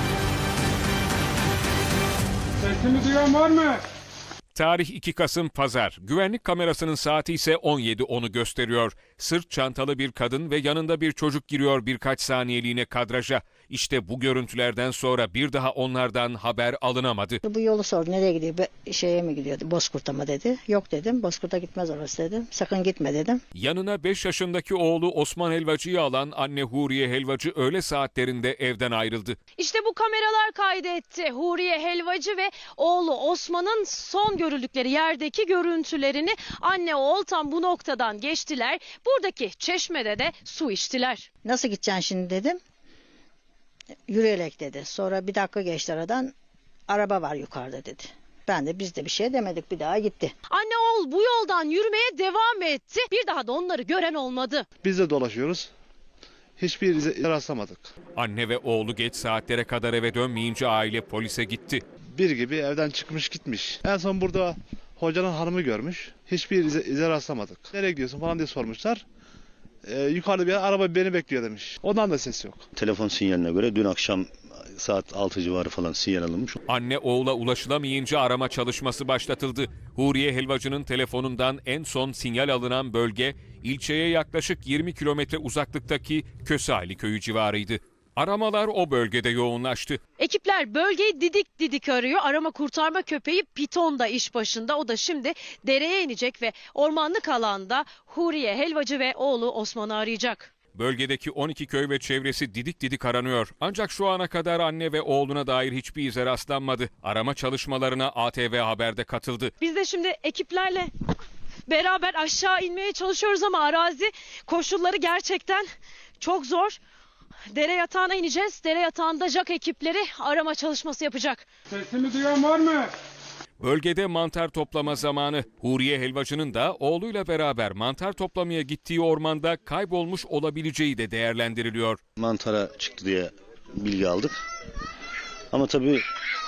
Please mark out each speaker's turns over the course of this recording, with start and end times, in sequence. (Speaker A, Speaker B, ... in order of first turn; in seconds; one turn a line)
Speaker A: 2.7-3.7
Speaker B: 4.5-17.4
Speaker C: 17.4-23.4
Speaker B: 23.5-29.4
Speaker D: 29.6-41.3
Speaker C: 41.4-42.6
Speaker C: 44.1-46.3
Speaker C: 46.9-50.3
Speaker D: 50.5-54.7
Speaker E: 54.8-55.7
Speaker E: 56.6-57.9
Speaker B: 58.2-61.8
Speaker E: 62.2-69.0
Speaker E: 69.9-72.6
Speaker F: 72.7-76.6
Speaker B: 76.7-90.0
Speaker D: 90.2-100.5
Speaker B: 100.7-109.5
Speaker D: 109.6-110.9
Speaker D: 111.7-115.7
Speaker D: 116.2-116.8
Speaker D: 117.5-121.5
Speaker A: 121.7-122.9
Speaker B: 123.6-132.0
Speaker F: 132.2-134.3
Speaker F: 135.5-136.0